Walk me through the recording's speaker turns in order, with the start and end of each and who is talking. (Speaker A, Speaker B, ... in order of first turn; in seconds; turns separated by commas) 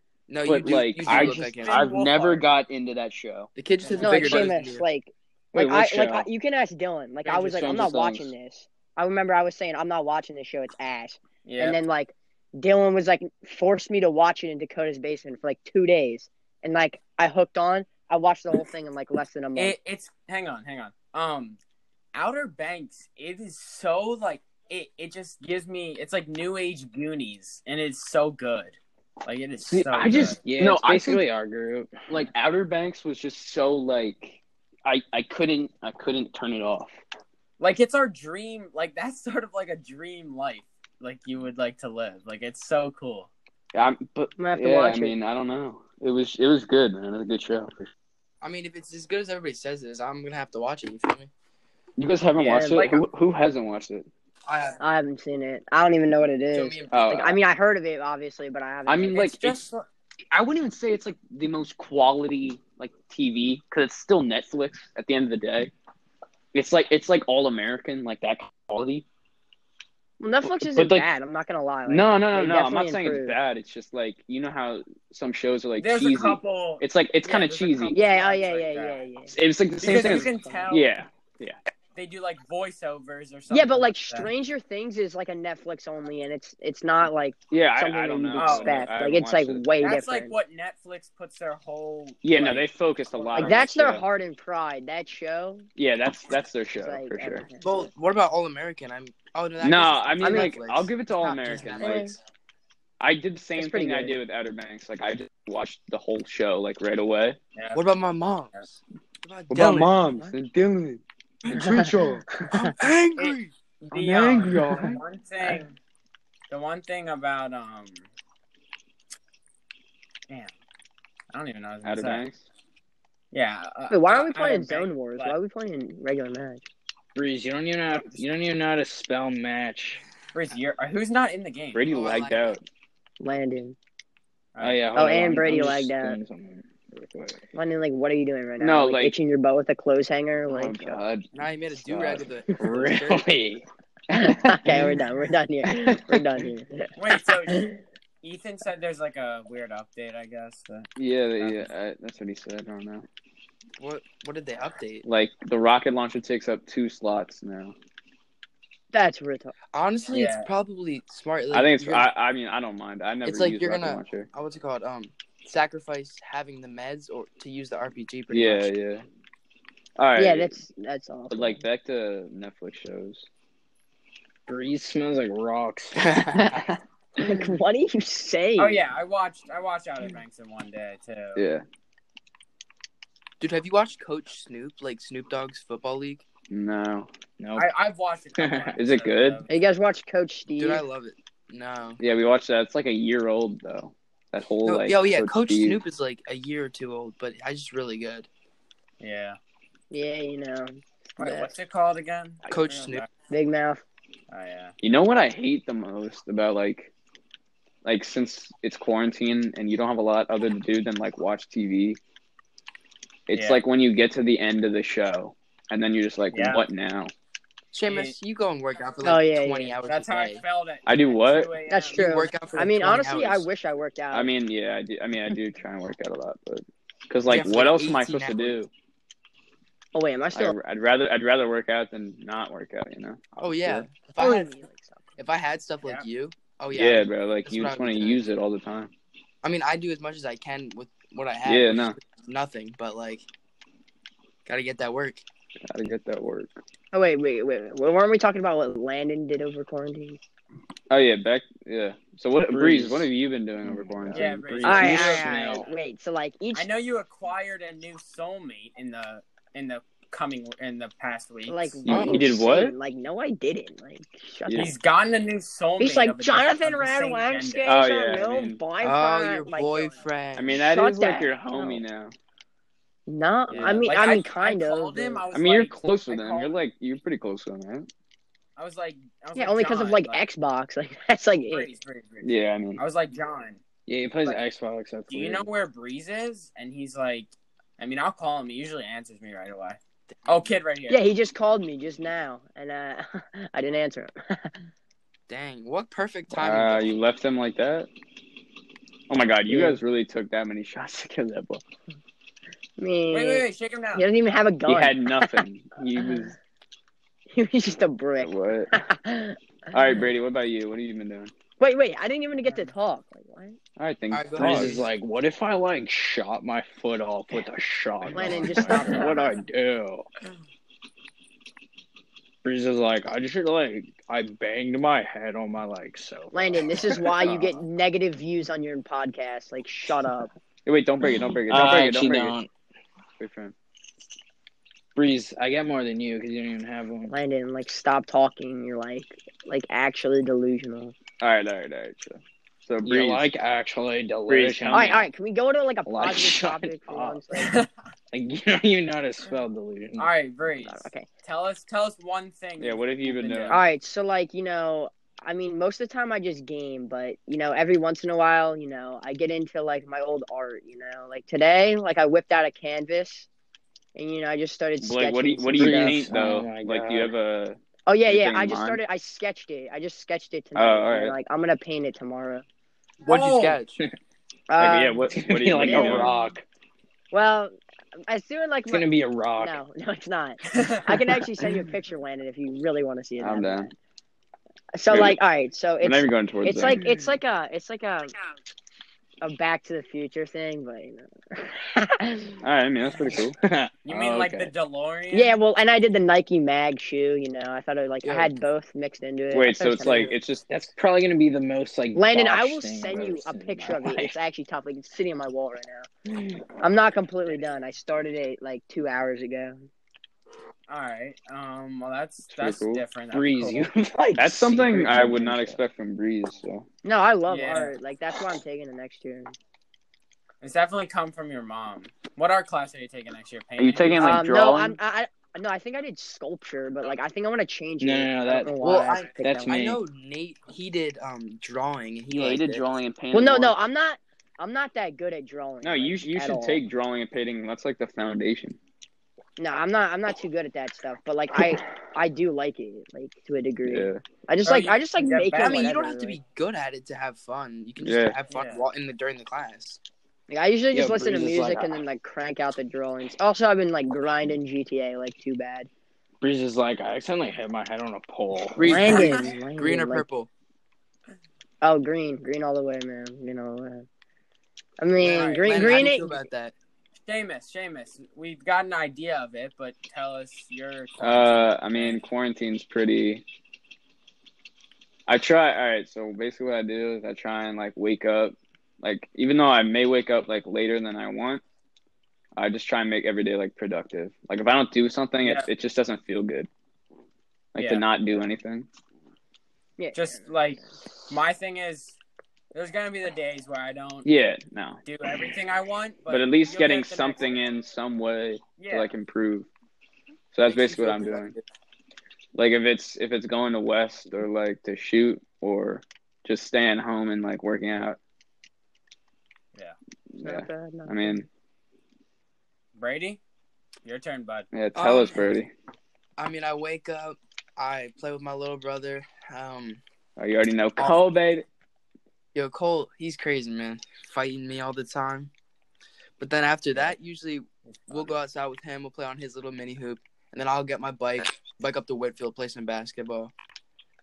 Speaker A: 0.3-1.9, Speaker B: 0.4-4.5, Speaker C: 1.0-2.5, Speaker A: 3.5-4.8, Speaker D: 4.0-19.7, Speaker B: 5.5-6.3, Speaker B: 7.2-8.3, Speaker C: 11.4-11.8, Speaker C: 19.5-21.6, Speaker C: 22.1-30.4, Speaker B: 29.6-31.2, Speaker E: 29.9-32.2, Speaker B: 32.1-37.0, Speaker C: 37.6-43.3, Speaker B: 43.7-47.9, Speaker D: 44.4-45.1, Speaker A: 48.4-51.3, Speaker B: 52.0-54.1, Speaker D: 52.4-52.8, Speaker C: 52.4-53.0, Speaker A: 54.5-54.8, Speaker D: 54.8-59.2, Speaker A: 56.5-57.1, Speaker B: 56.9-57.4, Speaker B: 58.9-59.6, Speaker C: 59.1-59.9, Speaker B: 60.3-65.7, Speaker B: 66.5-69.0, Speaker D: 70.2-73.3, Speaker B: 70.4-71.1, Speaker B: 71.8-78.0, Speaker C: 75.8-79.0, Speaker D: 77.9-79.3, Speaker B: 79.3-81.6, Speaker C: 79.8-80.9, Speaker D: 79.9-80.7, Speaker C: 82.0-84.3, Speaker D: 83.5-90.3, Speaker B: 87.5-89.7, Speaker C: 88.3-88.8, Speaker C: 89.8-93.7, Speaker B: 92.2-94.0, Speaker D: 93.3-95.7, Speaker B: 95.8-97.5, Speaker D: 96.7-97.8, Speaker A: 97.6-102.1, Speaker B: 99.6-102.2, Speaker D: 100.2-100.5, Speaker D: 101.8-102.2, Speaker B: 103.0-107.4, Speaker D: 103.5-104.2, Speaker C: 107.5-107.9, Speaker A: 107.7-110.0, Speaker B: 109.5-112.4, Speaker A: 111.4-113.5, Speaker B: 113.8-115.5, Speaker C: 113.9-115.8, Speaker A: 114.3-115.0, Speaker C: 116.5-118.1, Speaker C: 121.3-122.2, Speaker B: 121.8-122.4, Speaker C: 123.3-125.3, Speaker D: 123.9-126.6, Speaker E: 127.1-130.0, Speaker C: 127.9-128.2, Speaker C: 130.3-131.8, Speaker B: 131.7-132.6, Speaker A: 131.9-132.6, Speaker D: 133.2-133.8, Speaker C: 134.5-134.8, Speaker E: 134.6-137.4, Speaker D: 134.9-136.2, Speaker D: 137.5-141.0, Speaker B: 138.6-139.2, Speaker B: 140.5-142.3, Speaker A: 141.3-143.2, Speaker E: 142.6-145.0, Speaker D: 144.1-146.9, Speaker E: 145.7-146.4, Speaker C: 146.9-147.7, Speaker D: 147.5-147.8, Speaker C: 148.2-151.7, Speaker B: 150.9-153.1, Speaker A: 153.8-155.1, Speaker B: 155.0-157.7, Speaker D: 158.9-159.6, Speaker A: 159.7-162.1, Speaker C: 160.1-160.5, Speaker B: 161.5-164.3, Speaker A: 163.2-168.7, Speaker B: 168.3-169.0, Speaker B: 170.0-170.6, Speaker D: 170.2-171.6, Speaker B: 171.3-173.2, Speaker E: 174.5-176.6, Speaker A: 176.0-176.6, Speaker D: 177.2-178.8, Speaker C: 178.6-181.4, Speaker B: 181.3-181.6, Speaker A: 183.4-186.2, Speaker B: 186.5-187.1, Speaker E: 187.4-187.7, Speaker C: 187.5-189.5, Speaker E: 188.4-188.8, Speaker B: 188.8-189.4, Speaker D: 189.5-190.8, Speaker A: 190.6-192.0, Speaker B: 192.0-195.8, Speaker A: 194.6-198.3, Speaker C: 199.0-199.4, Speaker D: 199.9-201.5, Speaker C: 201.2-203.1, Speaker A: 202.5-203.1, Speaker D: 203.3-203.8, Speaker C: 204.3-204.7, Speaker B: 204.8-206.9, Speaker B: 207.8-212.0, Speaker B: 213.3-217.1, Speaker C: 213.3-213.6, Speaker C: 216.3-216.6, Speaker A: 217.7-220.4, Speaker C: 217.9-218.2, Speaker D: 219.0-219.8, Speaker C: 219.8-222.1, Speaker B: 220.8-221.5, Speaker D: 221.7-224.3, Speaker A: 221.9-223.5, Speaker B: 224.1-228.7, Speaker A: 227.3-228.5, Speaker D: 229.9-230.6, Speaker B: 230.3-233.9, Speaker A: 233.3-234.5, Speaker D: 234.2-235.1, Speaker A: 235.2-238.2, Speaker B: 236.7-238.9, Speaker A: 239.4-243.2, Speaker B: 241.4-242.0, Speaker A: 244.4-245.2, Speaker B: 245.6-246.6, Speaker D: 246.9-250.2, Speaker B: 250.9-254.3, Speaker E: 252.5-253.1, Speaker E: 253.6-255.7, Speaker C: 254.1-255.6, Speaker D: 254.6-256.7, Speaker C: 256.5-261.8, Speaker D: 261.5-264.7, Speaker B: 261.8-262.8, Speaker E: 261.9-262.2, Speaker B: 264.4-264.7, Speaker C: 264.5-267.7, Speaker D: 265.8-270.0, Speaker B: 267.6-268.6, Speaker A: 268.8-270.7, Speaker B: 270.3-272.1, Speaker D: 270.5-271.8, Speaker D: 273.1-275.2, Speaker C: 273.5-276.5, Speaker B: 273.5-273.9, Speaker B: 275.3-277.9, Speaker C: 278.6-280.2, Speaker D: 279.4-281.7, Speaker C: 281.5-283.6, Speaker B: 282.2-282.8, Speaker E: 283.9-285.5, Speaker C: 285.1-291.0, Speaker D: 290.9-294.6, Speaker A: 295.3-296.9, Speaker B: 296.3-297.9, Speaker B: 299.1-301.6, Speaker D: 299.5-299.8, Speaker D: 302.8-305.4, Speaker C: 303.1-304.1, Speaker B: 304.6-306.4, Speaker D: 307.3-309.8, Speaker B: 308.2-308.7, Speaker B: 309.7-311.3, Speaker D: 311.6-313.6, Speaker B: 313.8-314.8, Speaker A: 314.1-314.9, Speaker E: 314.4-320.1, Speaker D: 318.1-319.4, Speaker E: 322.4-327.1, Speaker D: 326.3-330.3, Speaker B: 327.2-327.6, Speaker B: 330.6-332.4, Speaker E: 331.5-332.5, Speaker B: 333.2-333.5, Speaker E: 334.9-337.1, Speaker D: 337.1-340.9, Speaker B: 341.2-343.2, Speaker E: 342.8-345.1, Speaker B: 344.3-345.0, Speaker D: 344.7-347.6, Speaker E: 345.9-347.2, Speaker C: 347.3-347.7, Speaker E: 348.1-350.1, Speaker C: 350.0-353.6, Speaker D: 350.5-351.1, Speaker B: 352.6-353.6, Speaker D: 353.5-363.3, Speaker D: 363.9-366.0, Speaker B: 364.8-368.8, Speaker E: 365.5-367.1, Speaker D: 367.9-372.4, Speaker B: 370.5-371.1, Speaker A: 373.0-373.8, Speaker C: 373.0-373.6, Speaker D: 374.5-375.0, Speaker B: 374.6-376.1, Speaker E: 375.1-376.4, Speaker D: 375.6-376.2, Speaker D: 377.1-377.5, Speaker D: 378.1-378.9, Speaker E: 378.7-379.6, Speaker D: 379.4-383.7, Speaker C: 380.5-380.9, Speaker B: 383.2-383.7, Speaker D: 384.7-388.1, Speaker B: 384.9-385.2, Speaker B: 385.8-386.9, Speaker D: 389.2-392.4, Speaker B: 392.4-394.5, Speaker E: 393.4-393.7, Speaker C: 393.8-395.3, Speaker D: 395.1-400.1, Speaker A: 398.0-398.3, Speaker B: 399.3-400.4, Speaker E: 400.5-404.1, Speaker D: 401.9-405.9, Speaker D: 406.6-409.6, Speaker C: 410.7-413.7, Speaker B: 412.3-412.8, Speaker E: 413.1-415.6, Speaker B: 414.2-416.7, Speaker D: 416.8-419.3, Speaker C: 417.3-417.7, Speaker C: 420.4-424.2, Speaker B: 423.6-424.8, Speaker D: 424.0-429.6, Speaker E: 427.8-428.6, Speaker A: 428.6-432.6, Speaker E: 429.2-429.8, Speaker B: 432.1-433.6, Speaker D: 433.1-436.6, Speaker B: 435.6-438.6, Speaker D: 439.4-446.2, Speaker B: 443.6-444.0, Speaker C: 444.4-445.7, Speaker A: 445.3-449.8, Speaker B: 447.8-448.2, Speaker C: 448.3-448.6, Speaker D: 450.3-455.7, Speaker E: 450.7-451.8, Speaker E: 456.2-458.9, Speaker A: 458.5-460.3, Speaker D: 458.6-460.0, Speaker D: 461.6-463.9, Speaker D: 464.8-466.2, Speaker A: 465.0-466.5, Speaker C: 465.0-465.9, Speaker C: 467.0-472.0, Speaker B: 471.0-473.2, Speaker B: 475.1-481.4, Speaker B: 482.4-486.5, Speaker B: 487.5-488.7, Speaker C: 487.6-487.9, Speaker D: 489.8-490.3, Speaker C: 489.9-492.0, Speaker C: 492.5-494.1, Speaker B: 494.0-494.8, Speaker C: 494.8-497.4, Speaker B: 496.1-499.5, Speaker C: 498.6-498.9, Speaker B: 500.3-501.3, Speaker A: 500.4-501.4, Speaker B: 502.3-508.0, Speaker B: 510.1-511.3, Speaker D: 510.2-511.2, Speaker C: 512.7-513.2, Speaker C: 513.8-514.5, Speaker B: 514.5-515.5, Speaker A: 514.7-515.3, Speaker A: 516.2-519.8, Speaker B: 520.2-521.5, Speaker A: 522.3-525.3, Speaker A: 526.2-533.3, Speaker C: 527.7-528.1